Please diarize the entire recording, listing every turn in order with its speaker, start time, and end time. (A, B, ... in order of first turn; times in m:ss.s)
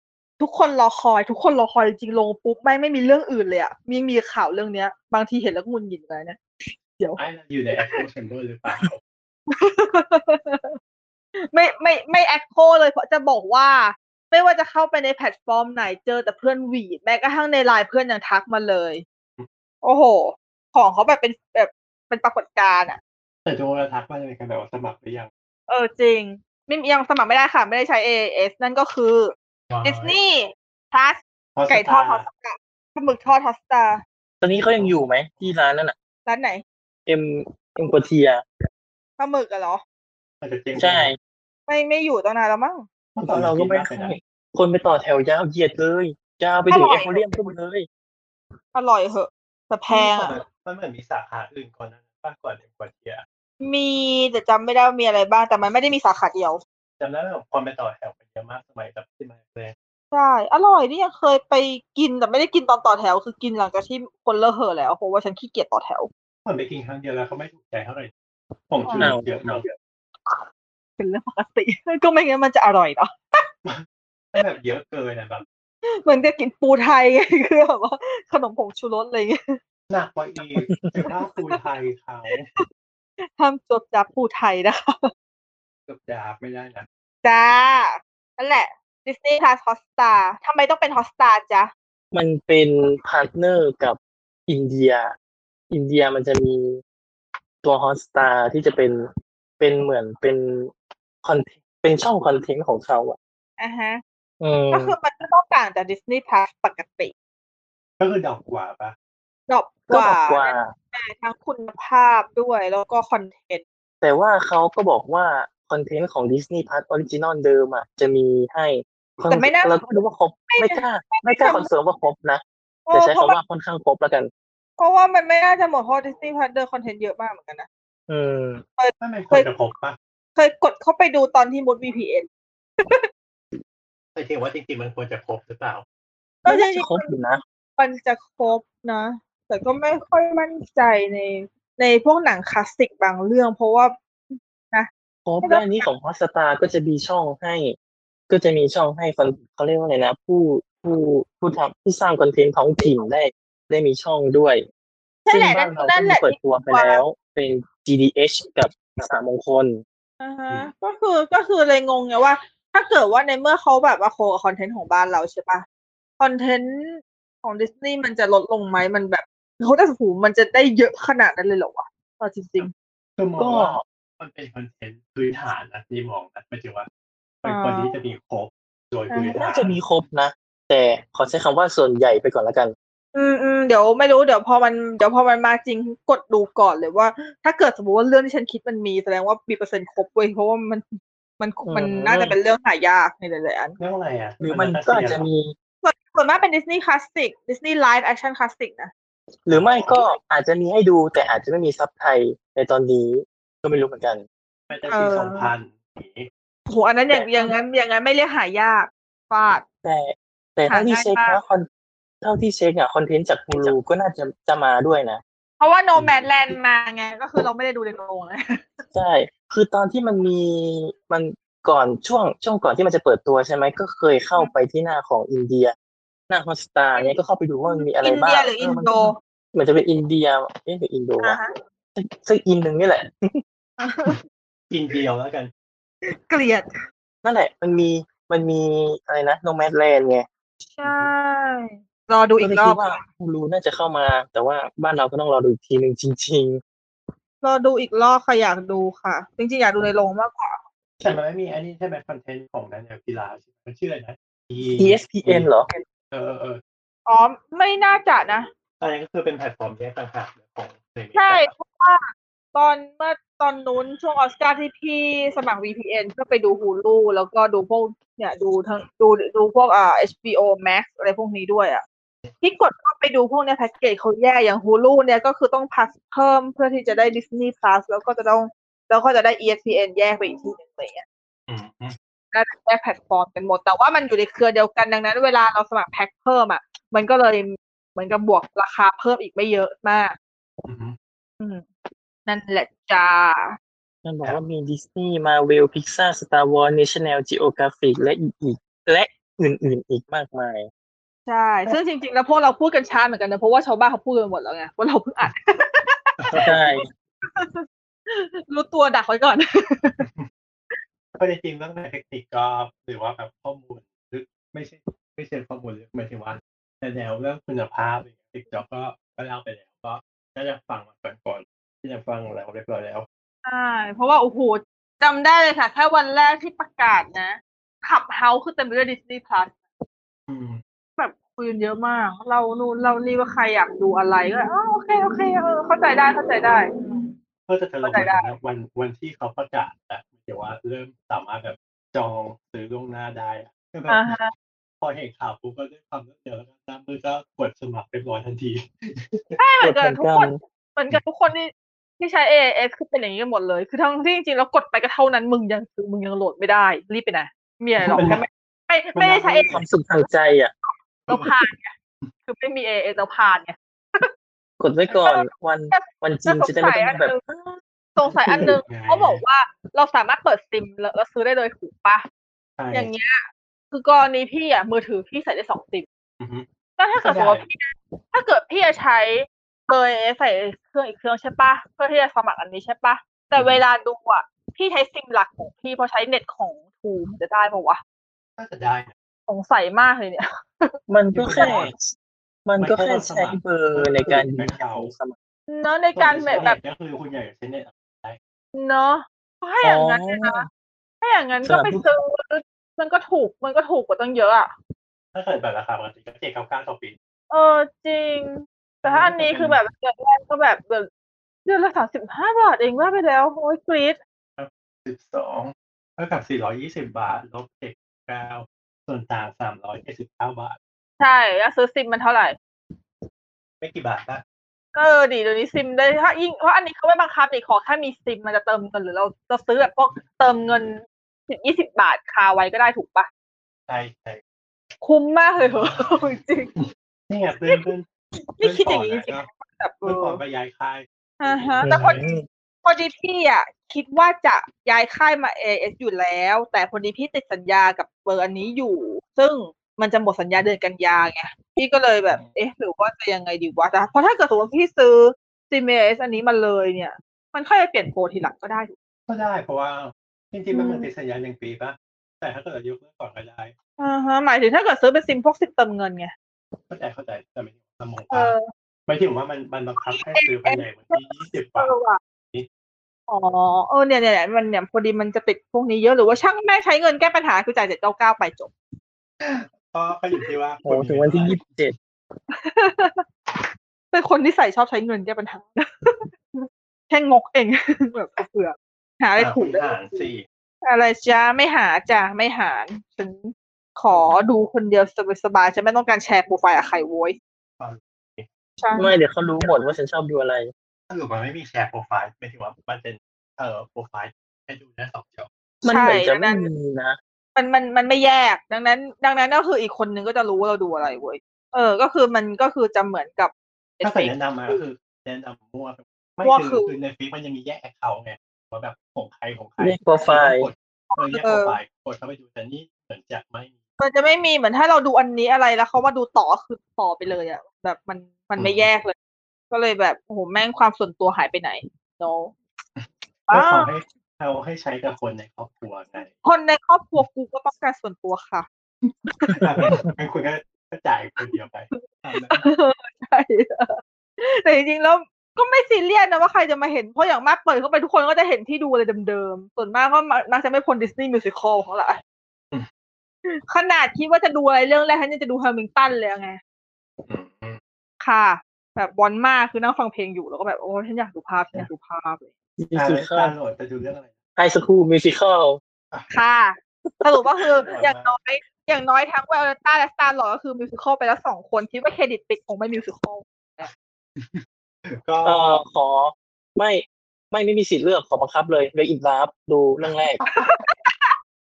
0:00.4-0:07.2 A
0:07.2-0:09.0 B
0:09.5-0:10.8 A
0:11.4-0:19.0 A
0:19.8-0:23.0 A
0:23.4-0:25.3 B
0:25.7-0:29.3 A
0:29.7-0:30.2 B
0:29.8-0:31.2 A
0:31.6-0:32.2 B
0:31.7-0:34.0 A
0:34.4-0:35.9 C
0:34.5-0:34.9 B
0:36.3-0:36.6 A
0:37.1-0:38.4 C
0:39.2-0:39.8 A
0:40.4-0:41.1 B
0:40.8-0:41.2 C
0:41.7-0:42.9 A
0:43.2-0:44.2 B
0:43.2-0:47.9 C
0:46.7-0:47.4 A
0:48.8-0:50.4 A
0:49.9-0:53.2 B
0:53.6-0:56.6 A
0:57.0-0:59.7 B
1:00.1-1:06.1 A
1:06.4-1:08.1 B
1:08.7-1:09.6 B
1:08.9-1:10.4 A
1:09.0-1:09.2 C
1:11.0-1:13.4 A
1:13.6-1:15.4 B
1:16.0-1:19.6 A
1:19.9-1:22.4 B
1:20.6-1:21.0 C
1:21.0-1:21.6 A
1:23.4-1:25.1 A
1:25.9-1:26.9 B
1:27.2-1:31.7 A
1:32.1-1:35.1 C
1:35.7-1:36.8 C
1:37.6-1:39.1 C
1:39.6-1:40.7 C
1:41.2-1:43.2 C
1:43.6-1:44.0 A
1:44.4-1:44.9 C
1:44.7-1:47.1 A
1:48.0-1:49.0 B
1:49.5-1:53.6 A
1:49.9-1:50.7 C
1:54.0-2:02.4 C
1:59.3-1:59.8 A
2:00.5-2:01.7 A
2:02.9-2:03.4 A
2:02.9-2:04.3 C
2:04.8-2:07.7 A
2:08.1-2:08.6 C
2:08.8-2:09.5 A
2:09.0-2:10.0 B
2:10.4-2:12.3 A
2:14.2-2:15.8 B
2:16.4-2:17.1 A
2:16.5-2:17.4 C
2:17.8-2:24.9 A
2:25.3-2:27.8 C
2:25.4-2:25.9 A
2:28.3-2:34.6 C
2:35.3-2:37.0 A
2:35.3-2:39.8 C
2:40.2-2:45.6 A
2:46.2-2:52.7 A
2:53.2-2:56.9 B
2:53.4-2:53.8 C
2:57.4-2:59.8 B
2:57.4-2:57.9 A
2:59.1-2:59.4 A
2:59.3-3:02.7 C
3:03.2-3:10.8 A
3:11.4-3:13.8 A
3:11.6-3:12.4 C
3:13.8-3:15.2 B
3:14.4-3:15.5 C
3:15.8-3:18.9 A
3:19.5-3:24.2 C
3:19.5-3:20.0 B
3:24.7-3:26.3 B
3:24.9-3:25.5 A
3:26.7-3:29.6 A
3:29.8-3:31.6 C
3:30.7-3:31.4 A
3:32.2-3:35.2 C
3:33.5-3:33.8 B
3:35.6-3:38.8 A
3:36.0-3:36.6 B
3:38.9-3:45.7 C
3:46.3-3:51.4 C
3:47.0-3:49.2 A
3:51.2-3:51.5 A
3:52.0-3:53.4 C
3:53.8-3:54.2 A
3:54.7-3:55.5 B
3:56.3-3:56.7 A
3:57.2-4:00.3 C
4:00.7-4:03.0 A
4:00.8-4:01.1 B
4:02.4-4:06.6 C
4:07.4-4:10.6 A
4:11.0-4:15.5 B
4:14.8-4:15.7 C
4:16.1-4:16.6 B
4:17.1-4:18.5 A
4:18.8-4:21.5 B
4:21.2-4:22.0 A
4:22.5-4:31.8 A
4:32.4-4:41.0 A
4:41.5-4:42.0 B
4:42.3-4:50.2 A
4:50.6-4:51.0 B
4:51.4-4:51.7 A
4:52.3-4:53.6 A
4:54.0-5:00.7 C
5:01.3-5:06.7 A
5:06.2-5:06.5 B
5:06.4-5:06.9 C
5:07.2-5:10.0 A
5:11.2-5:23.1 B
5:23.4-5:29.6 A
5:30.3-5:30.6 B
5:31.0-5:37.1 A
5:37.5-5:44.1 B
5:37.8-5:38.3 A
5:43.9-5:44.3 A
5:44.8-5:49.4 B
5:49.4-5:59.6 A
5:49.6-5:50.4 C
5:57.9-5:58.2 B
5:59.0-5:59.6 B
5:59.5-6:00.5 C
6:01.1-6:01.7 A
6:02.3-6:04.1 A
6:04.6-6:07.2 C
6:05.0-6:12.0 A
6:08.1-6:09.2 B
6:08.3-6:08.5 C
6:12.6-6:12.9 B
6:12.7-6:15.9 A
6:16.2-6:16.5 B
6:16.8-6:27.8 A
6:17.0-6:17.4 B
6:23.4-6:23.6 B
6:28.4-6:28.9 B
6:29.3-6:30.7 A
6:30.9-6:31.9 C
6:31.1-6:31.7 B
6:32.5-6:35.2 C
6:32.6-6:34.9 B
6:35.5-6:36.6 A
6:36.0-6:38.2 B
6:38.5-6:40.5 A
6:39.6-6:40.5 C
6:41.0-6:44.5 A
6:41.4-6:41.8 C
6:45.1-6:47.0 B
6:47.3-6:50.9 A
6:48.8-6:49.6 B
6:51.5-6:54.0 A
6:54.4-7:00.6 B
7:01.0-7:02.4 A
7:03.6-7:04.2 B
7:04.8-7:13.1 A
7:13.7-7:14.2 B
7:14.8-7:16.5 A
7:15.4-7:17.8 B
7:18.4-7:20.2 A
7:18.4-7:19.3 B
7:19.8-7:22.0 B
7:21.2-7:22.0 A
7:21.6-7:22.2 C
7:22.6-7:38.7 A
7:39.1-7:43.5 B
7:40.5-7:40.9 A
7:43.8-7:46.1 A
7:46.7-7:48.3 B
7:48.1-7:48.4 A
7:48.9-7:51.7 B
7:49.8-7:51.0 A
7:51.6-7:52.0 A
7:53.1-7:58.5 A
7:59.2-8:01.4 B
8:00.7-8:01.8 C
8:02.3-8:03.0 A
8:03.9-8:10.1 A
8:09.2-8:10.2 B
8:10.6-8:17.2 A
8:17.6-8:18.3 B
8:18.6-8:19.0 A
8:18.8-8:20.5 C
8:20.9-8:25.3 B
8:25.6-8:27.0 C
8:25.7-8:26.4 A
8:27.4-8:34.6 A
8:33.8-8:43.6 B
8:36.2-8:36.7 A
8:39.6-8:40.5 C
8:40.9-8:41.6 A
8:43.8-8:49.0 A
8:48.4-8:48.7 B
8:49.5-8:52.4 A
8:52.8-8:56.1 B
8:53.3-8:53.7 A
8:56.2-8:58.5 A
8:59.2-8:59.4 A
8:59.4-9:02.5 B
9:01.7-9:12.0 A
9:13.5-9:16.4 A
9:17.1-9:17.6 B
9:18.0-9:22.3 A
9:22.6-9:23.3 C
9:22.8-9:24.1 B
9:24.4-9:25.6 C
9:26.1-9:33.7 A
9:27.4-9:28.1 B
9:34.2-9:35.6 B
9:35.2-9:40.2 C
9:40.2-9:40.4 B
9:40.3-9:41.1 A